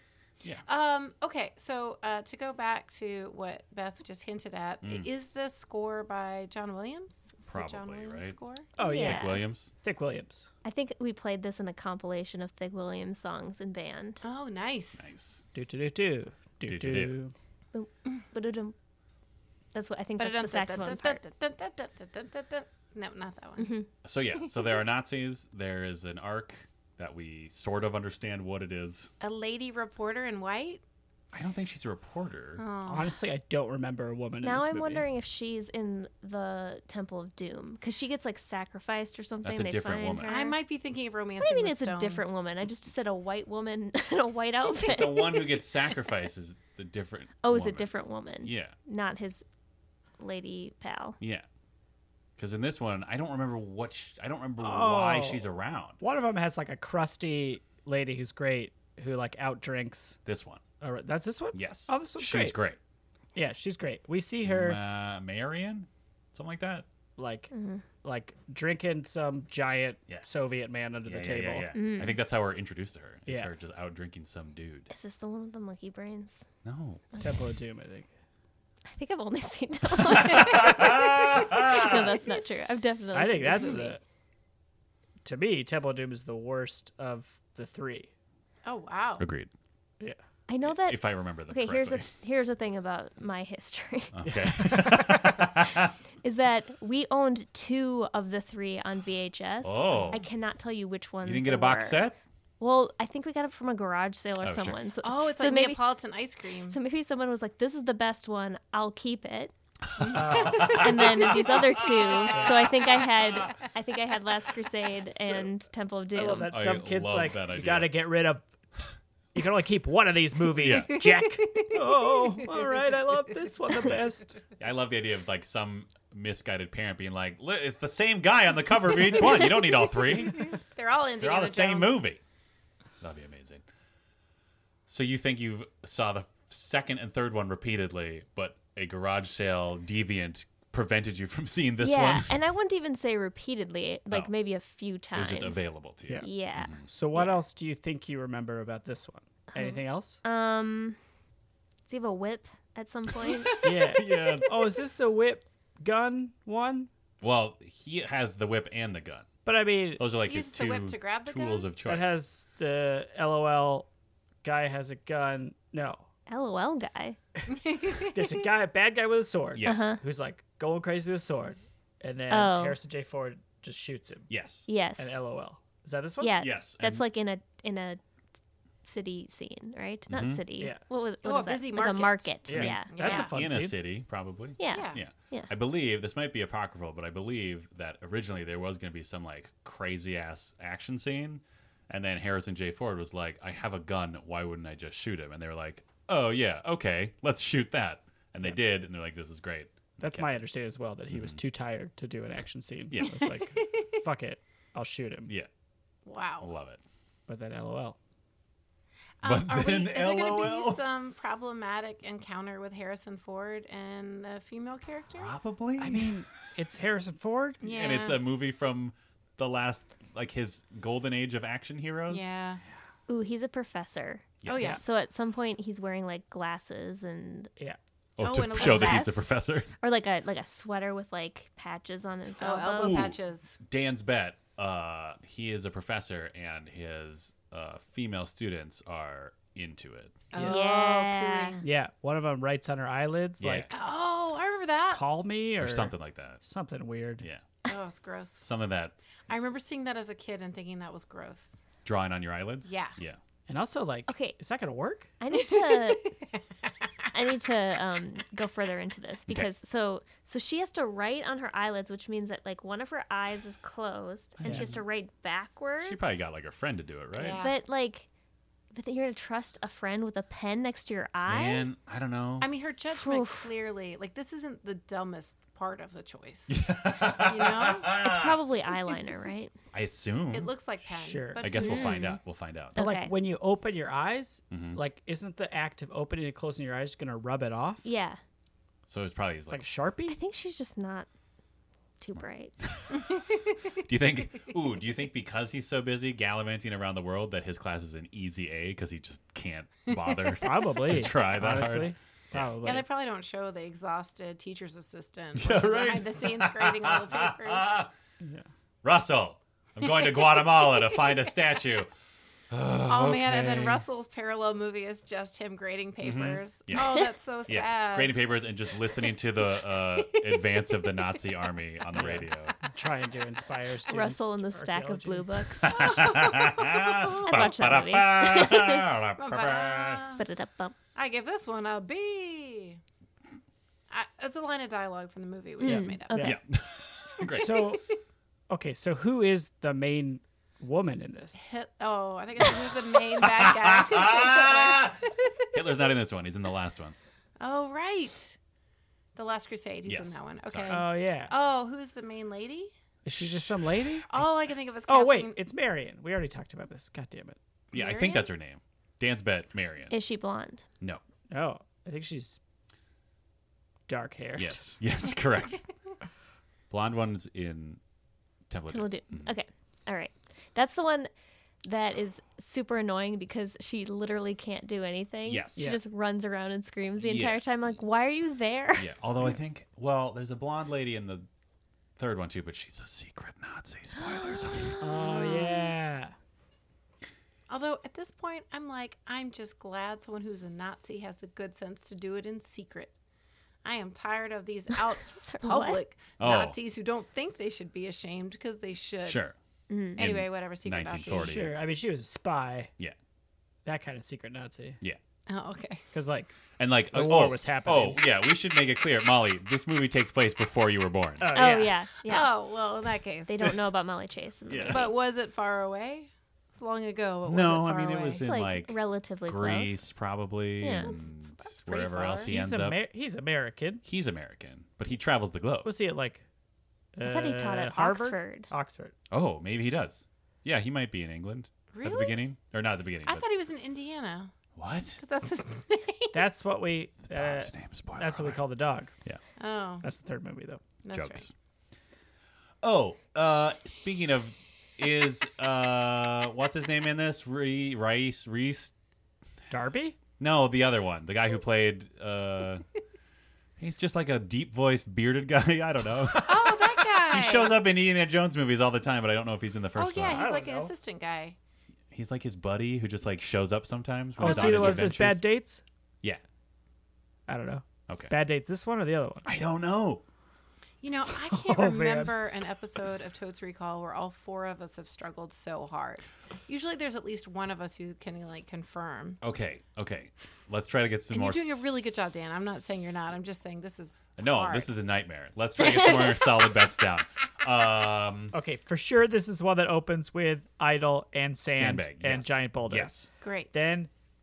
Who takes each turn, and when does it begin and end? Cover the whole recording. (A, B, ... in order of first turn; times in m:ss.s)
0:00.6-0:08.7 A
0:04.8-0:05.1 B
0:07.5-0:09.7 B
0:08.8-0:10.4 C
0:08.8-0:09.4 D
0:10.6-0:14.2 D
0:14.2-0:15.1 A
0:15.0-0:15.4 B
0:15.5-0:17.3 C
0:16.6-0:17.1 B
0:17.7-0:18.7 D
0:19.7-0:21.2 D
0:20.2-0:23.7 A
0:23.6-0:23.9 D
0:24.0-0:29.1 B
0:29.2-0:30.8 A
0:31.3-0:32.6 B
0:32.6-0:33.2 A
0:32.8-0:35.0 C
0:34.4-0:40.6 D
0:39.4-0:40.3 B
0:40.2-0:42.2 A
0:41.4-0:45.5 D
0:44.8-0:47.9 B
0:47.4-0:49.4 D
0:48.4-0:48.7 B
0:50.2-0:51.2 D
0:51.2-0:51.5 B
0:52.4-0:56.0 B
0:54.6-0:55.4 C
0:56.0-1:00.2 C
1:00.2-1:00.6 B
1:00.8-1:02.6 C
1:01.5-1:02.8 B
1:03.3-1:04.8 C
1:04.4-1:06.9 B
1:07.2-1:07.5 C
1:07.5-1:07.8 D
1:08.0-1:11.7 C
1:11.0-1:14.9 B
1:11.7-1:12.2 D
1:13.3-1:13.5 C
1:14.9-1:16.4 D
1:16.6-1:17.0 B
1:17.1-1:17.4 D
1:17.2-1:18.1 C
1:18.9-1:24.0 D
1:20.0-1:22.1 B
1:20.6-1:21.0 A
1:23.1-1:24.0 C
1:25.2-1:28.1 C
1:28.6-1:29.2 A
1:29.2-1:29.5 B
1:30.5-1:34.5 D
1:30.6-1:32.1 B
1:34.1-1:35.9 B
1:34.6-1:35.2 C
1:36.2-1:42.0 D
1:39.6-1:40.2 B
1:41.2-1:42.2 B
1:42.6-1:45.8 D
1:44.4-1:44.8 B
1:45.0-1:46.8 A
1:46.7-1:49.5 D
1:50.0-1:52.6 B
1:50.0-1:50.9 C
1:50.4-1:51.4 A
1:50.5-1:56.6 D
1:52.3-1:52.7 C
1:56.1-1:58.4 C
1:56.5-1:57.9 B
1:59.3-2:04.3 C
2:00.6-2:01.0 B
2:00.6-2:02.8 A
2:04.6-2:10.6 B
2:10.4-2:12.0 A
2:11.2-2:12.2 B
2:13.0-2:13.6 B
2:14.9-2:22.4 B
2:21.8-2:27.3 D
2:25.1-2:26.8 B
2:26.8-2:30.2 C
2:29.5-2:31.0 D
2:31.9-2:33.7 D
2:33.6-2:36.9 C
2:33.9-2:34.7 B
2:37.2-2:39.3 B
2:39.4-2:40.0 C
2:40.0-2:42.2 B
2:40.2-2:41.7 A
2:41.8-2:43.9 C
2:44.4-2:46.0 C
2:46.3-2:47.2 D
2:47.6-2:48.2 A
2:48.0-2:54.3 C
2:49.5-2:50.0 B
2:49.6-2:50.0 D
2:52.3-2:52.8 D
2:54.3-2:54.7 B
2:54.6-2:55.2 D
2:55.0-2:56.4 C
2:56.2-2:58.0 D
2:56.4-2:57.0 B
2:58.8-3:03.2 D
3:00.1-3:00.4 B
3:01.2-3:02.3 A
3:02.4-3:03.7 C
3:02.5-3:20.4 B
3:02.9-3:03.3 A
3:04.6-3:05.5 D
3:04.7-3:05.0 A
3:20.0-3:25.3 C
3:21.1-3:21.4 B
3:22.9-3:23.3 B
3:26.0-3:26.5 A
3:26.4-3:26.8 B
3:27.3-3:28.0 C
3:29.2-3:35.3 A
3:29.2-3:30.8 B
3:35.2-3:36.2 B
3:35.8-3:37.6 C
3:37.6-3:38.2 A
3:37.6-3:42.3 B
3:42.1-3:42.6 A
3:43.1-3:47.5 D
3:44.4-3:44.8 B
3:44.4-3:44.8 A
3:48.2-3:49.7 B
3:48.2-3:49.2 A
3:48.5-3:53.1 D
3:52.4-3:53.6 A
3:52.8-4:00.2 B
4:00.3-4:01.6 A
4:00.4-4:01.6 D
4:01.6-4:03.7 C
4:03.4-4:03.7 B
4:03.7-4:05.0 A
4:04.9-4:07.2 C
4:05.6-4:06.4 B
4:07.6-4:08.5 A
4:08.4-4:09.0 B
4:09.3-4:11.6 A
4:11.8-4:13.2 B
4:12.6-4:13.0 A
4:13.5-4:15.1 C
4:14.1-4:14.4 D
4:15.2-4:16.1 D
4:15.3-4:17.0 A
4:17.1-4:26.0 D
4:24.4-4:24.8 B
4:24.4-4:24.7 C
4:25.8-4:27.4 B
4:27.1-4:27.5 A
4:27.4-4:28.1 D
4:28.7-4:31.7 D
4:31.2-4:32.5 B
4:32.4-4:38.0 A
4:32.9-4:33.5 D
4:36.5-4:38.4 B
4:38.0-4:39.5 D
4:39.7-4:40.5 B
4:40.3-4:42.2 A
4:40.9-4:41.6 C
4:41.4-4:42.8 B
4:41.6-4:42.2 D
4:42.8-4:43.1 D
4:42.8-4:47.8 C
4:44.5-4:44.8 B
4:47.8-4:48.2 D
4:48.9-4:49.6 B
4:49.5-4:50.2 C
4:50.1-4:51.1 D
4:52.0-4:52.5 D
4:52.2-4:53.0 B
4:52.9-4:53.8 A
4:53.8-5:02.5 B
5:00.4-5:02.8 C
5:02.6-5:07.8 A
5:05.3-5:07.9 B
5:08.2-5:08.5 C
5:08.8-5:11.9 B
5:10.0-5:11.2 A
5:12.5-5:13.8 B
5:12.9-5:18.2 A
5:16.0-5:22.5 B
5:18.8-5:21.1 A
5:21.9-5:25.2 C
5:23.8-5:26.0 D
5:25.6-5:30.0 B
5:25.6-5:26.8 A
5:26.8-5:28.9 D
5:29.2-5:30.2 A
5:30.2-5:30.7 D
5:30.9-5:32.8 A
5:33.9-5:36.3 A
5:35.6-5:36.4 D
5:35.6-5:36.4 C
5:36.2-5:37.8 B
5:37.2-5:37.4 A
5:37.3-5:37.8 C
5:38.5-5:41.4 C
5:41.4-5:45.6 A
5:42.4-5:47.0 B
5:47.4-5:48.4 A
5:49.1-5:52.7 A
5:49.8-5:50.8 B
5:50.7-5:51.3 C
5:53.0-5:54.0 C
5:53.2-5:53.5 B
5:54.1-5:55.4 A
5:54.9-5:57.4 C
5:57.7-6:00.0 B
5:57.7-5:58.3 A
5:59.9-6:00.6 D
6:01.3-6:02.4 C
6:03.9-6:04.6 C
6:04.4-6:05.6 B
6:06.7-6:07.8 B
6:08.5-6:09.3 B
6:08.7-6:11.1 D
6:11.6-6:18.9 D
6:15.2-6:15.7 B
6:17.0-6:17.4 B
6:18.7-6:21.3 B
6:22.0-6:24.8 B
6:24.6-6:25.2 D
6:24.8-6:26.1 C
6:25.0-6:25.4 A
6:27.5-6:32.9 A
6:33.6-6:39.2 A
6:35.1-6:35.8 D
6:36.2-6:36.6 B
6:39.0-6:39.4 B
6:39.7-6:40.0 D
6:40.0-6:41.4 A
6:40.0-6:41.5 B
6:41.0-6:42.7 C
6:43.6-6:44.8 C
6:45.3-6:45.8 A
6:45.9-6:46.4 C
6:46.6-6:51.3 B
6:46.9-6:48.0 C
6:51.2-6:51.8 C
6:51.3-6:52.3 D
6:52.1-6:53.6 A
6:53.3-6:54.9 D
6:54.5-6:54.9 B
6:54.7-6:58.2 A
6:57.2-7:02.8 B
6:58.2-6:59.8 D
7:00.6-7:01.0 D
7:00.8-7:02.3 A
7:02.2-7:03.8 C
7:03.8-7:05.7 B
7:05.6-7:06.2 C
7:06.9-7:08.9 C
7:07.0-7:08.5 D
7:09.1-7:13.2 B
7:11.7-7:12.2 A
7:13.0-7:14.3 A
7:14.6-7:15.0 B
7:15.0-7:16.2 A
7:16.1-7:18.9 C
7:17.0-7:18.4 B
7:19.4-7:19.8 A
7:19.8-7:20.6 C
7:20.8-7:21.3 A
7:20.9-7:21.3 B
7:22.6-7:28.7 B
7:29.5-7:30.0 C
7:30.2-7:32.6 B
7:33.6-7:40.2 B
7:36.2-7:37.6 A
7:39.8-7:41.4 A
7:40.0-7:40.7 C
7:41.9-7:45.2 B
7:44.2-7:45.6 C
7:44.2-7:44.9 A
7:47.3-7:49.3 C
7:49.2-7:50.0 B
7:50.8-7:59.2 A
7:51.2-7:52.3 C
7:59.2-8:01.7 B
8:01.1-8:04.7 A
8:04.2-8:08.3 B
8:05.7-8:06.1 D
8:08.3-8:12.9 C
8:11.5-8:13.1 B
8:13.2-8:13.5 A
8:13.5-8:13.9 C